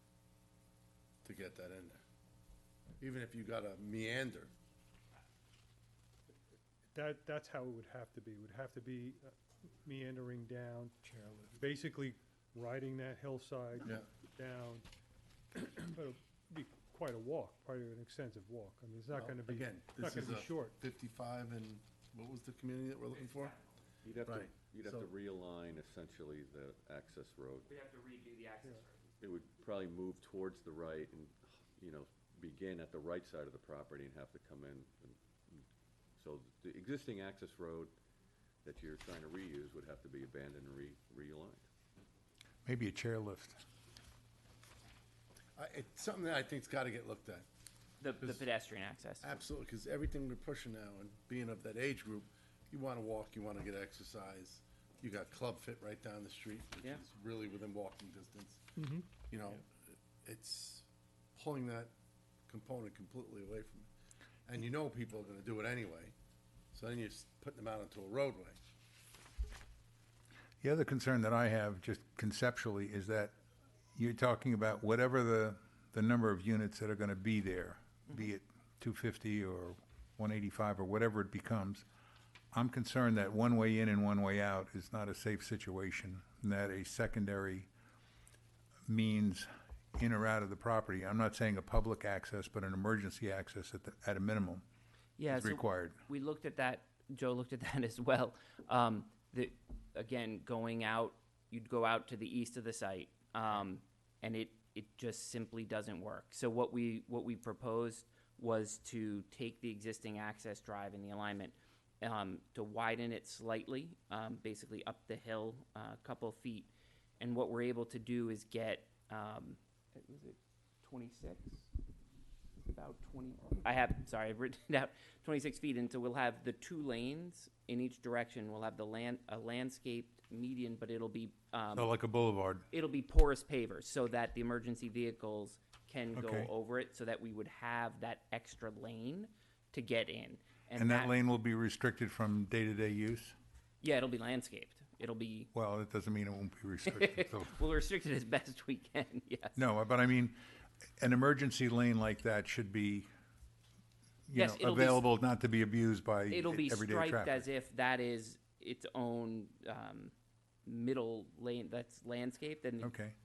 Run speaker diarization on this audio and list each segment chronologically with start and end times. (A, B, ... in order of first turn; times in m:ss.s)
0:01.2-0:02.0 A
0:03.0-0:04.5 A
0:06.9-0:09.3 B
0:09.8-0:14.8 B
0:15.5-0:20.7 B
0:19.1-0:23.6 A
0:23.3-0:23.6 C
0:24.0-0:27.7 D
0:24.2-0:25.1 A
0:27.7-0:29.1 C
0:29.2-0:35.7 D
0:36.2-0:38.0 D
0:38.6-0:41.7 D
0:42.6-0:43.6 E
0:45.6-0:47.5 A
0:48.0-0:49.4 C
0:49.2-1:01.9 A
0:58.8-0:59.0 B
1:02.5-1:03.9 A
1:04.5-1:06.1 A
1:06.7-1:08.6 A
1:10.6-1:13.3 E
1:14.0-1:21.8 E
1:22.5-1:27.7 E
1:28.9-1:34.6 E
1:35.2-2:01.7 C
1:35.3-1:36.0 E
2:02.6-2:11.9 C
2:11.7-2:12.7 E
2:12.7-2:21.1 C
2:16.2-2:16.5 E
2:20.8-2:23.4 E
2:23.8-2:25.5 C
2:25.5-2:27.5 E
2:26.9-2:29.6 C
2:29.6-2:30.4 E
2:31.0-2:33.1 E
2:34.3-2:37.4 E
2:34.4-2:35.0 C
2:36.3-2:40.1 C
2:40.7-2:42.9 C
2:42.8-2:43.2 E